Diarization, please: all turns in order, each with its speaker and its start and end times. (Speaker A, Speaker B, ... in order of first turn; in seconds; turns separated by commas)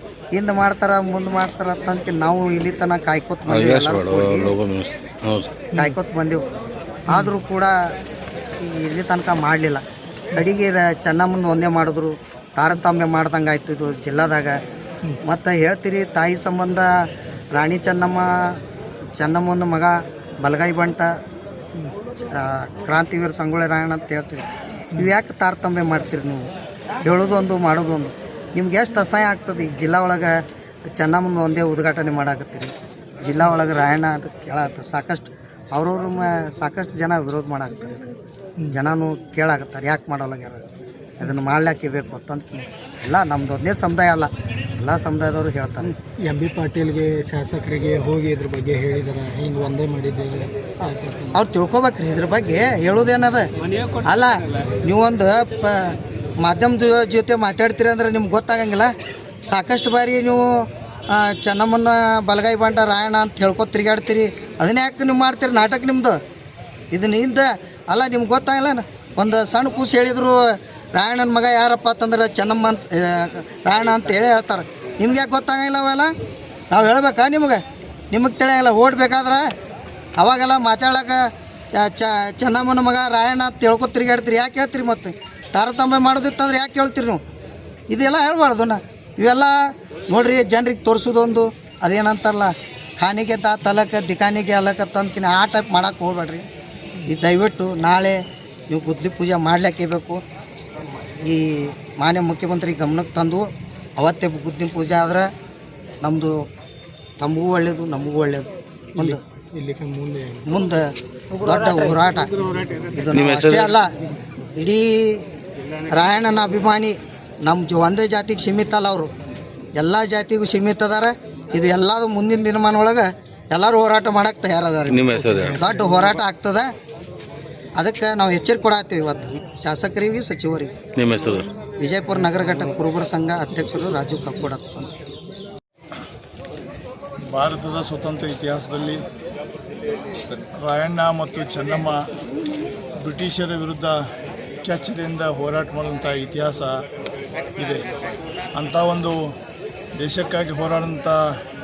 Speaker A: 0.3-4.5, Speaker B: 3.5-5.6, Speaker A: 5.8-6.4, Speaker A: 7.1-7.7, Speaker C: 7.1-7.4, Speaker A: 8.6-9.8, Speaker A: 10.3-14.6, Speaker A: 15.3-16.9, Speaker A: 17.6-18.3, Speaker A: 19.2-21.1, Speaker A: 22.3-24.4, Speaker A: 25.0-26.5, Speaker A: 27.1-30.4, Speaker A: 31.0-32.7, Speaker A: 33.2-38.1, Speaker A: 38.7-40.6, Speaker A: 41.2-45.9, Speaker C: 45.9-51.4, Speaker A: 51.3-53.5, Speaker A: 54.0-58.9, Speaker A: 59.5-66.2, Speaker A: 66.9-70.4, Speaker A: 71.0-76.1, Speaker A: 76.7-79.5, Speaker A: 80.2-81.2, Speaker A: 81.8-87.2, Speaker A: 87.9-89.5, Speaker A: 90.1-96.5, Speaker A: 97.1-98.2, Speaker A: 98.7-100.2, Speaker A: 100.8-103.5, Speaker A: 104.0-105.3, Speaker A: 106.0-106.3, Speaker A: 107.2-109.2, Speaker C: 109.0-110.5, Speaker A: 110.5-112.3, Speaker A: 112.9-113.9, Speaker B: 113.1-113.7, Speaker A: 114.6-115.2, Speaker A: 115.9-119.1, Speaker A: 119.8-126.7, Speaker B: 124.9-125.6, Speaker A: 127.8-130.7, Speaker B: 131.0-131.5, Speaker A: 131.8-134.9, Speaker D: 137.3-139.0, Speaker D: 140.6-142.0, Speaker D: 143.0-144.0, Speaker D: 144.6-146.8, Speaker D: 147.6-147.8, Speaker D: 148.6-149.3, Speaker D: 150.0-151.3